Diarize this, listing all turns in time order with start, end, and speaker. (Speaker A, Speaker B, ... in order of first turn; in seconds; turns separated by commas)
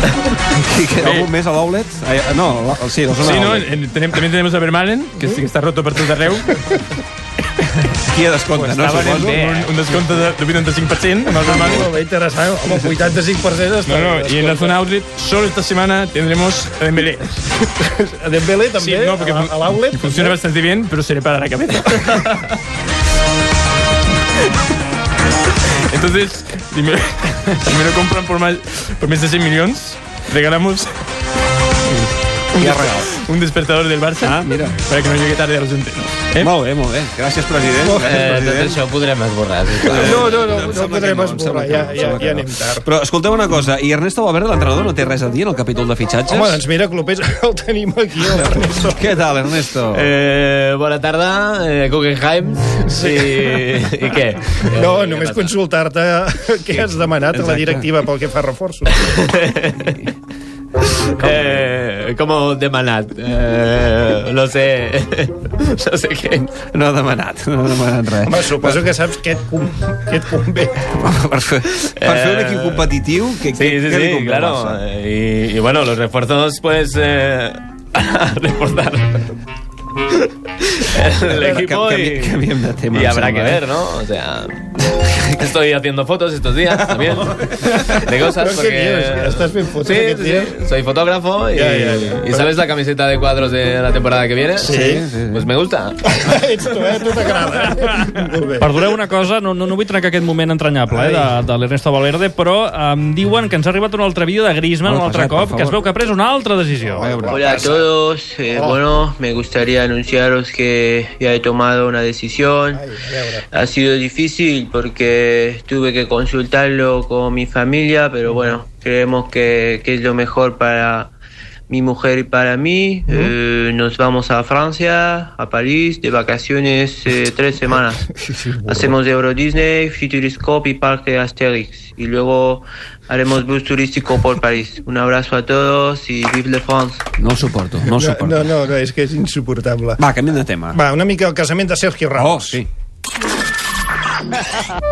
Speaker A: 0.5-3.7, Speaker B: 1.0-1.3, Speaker B: 3.2-6.6, Speaker A: 8.1-9.4, Speaker B: 8.5-11.9, Speaker C: 9.2-9.6, Speaker D: 11.4-14.7, Speaker B: 13.8-17.4, Speaker D: 17.8-20.4, Speaker B: 18.8-22.6, Speaker B: 25.9-30.9, Speaker B: 32.5-36.5, Speaker A: 32.6-33.1, Speaker A: 34.2-34.8, Speaker A: 36.4-38.8, Speaker D: 37.8-38.1, Speaker C: 38.0-40.3, Speaker A: 39.8-46.6, Speaker D: 39.8-42.9, Speaker D: 46.3-49.2, Speaker A: 48.3-50.1, Speaker C: 49.9-55.5, Speaker D: 53.0-53.6, Speaker D: 54.7-58.9, Speaker A: 56.7-57.9, Speaker C: 59.0-59.9, Speaker C: 61.1-66.5, Speaker A: 66.7-68.8, Speaker D: 68.2-70.8, Speaker A: 71.0-74.8, Speaker C: 72.0-72.8, Speaker C: 73.5-79.2, Speaker C: 80.8-84.7, Speaker A: 81.3-83.6, Speaker C: 85.2-96.0, Speaker D: 87.7-90.5, Speaker D: 91.5-92.5, Speaker D: 94.6-95.0, Speaker A: 94.6-95.5, Speaker D: 96.1-98.8, Speaker E: 98.6-107.1, Speaker D: 100.9-101.3, Speaker A: 104.8-105.9, Speaker D: 106.8-107.9, Speaker A: 107.0-107.6, Speaker F: 107.3-112.8, Speaker D: 108.5-108.8, Speaker D: 112.7-113.4, Speaker F: 113.5-121.1, Speaker F: 121.7-128.1, Speaker D: 128.2-128.9, Speaker F: 128.7-137.0, Speaker A: 137.2-138.5, Speaker D: 137.9-140.0, Speaker A: 140.0-140.8, Speaker D: 140.7-142.6, Speaker A: 142.1-142.7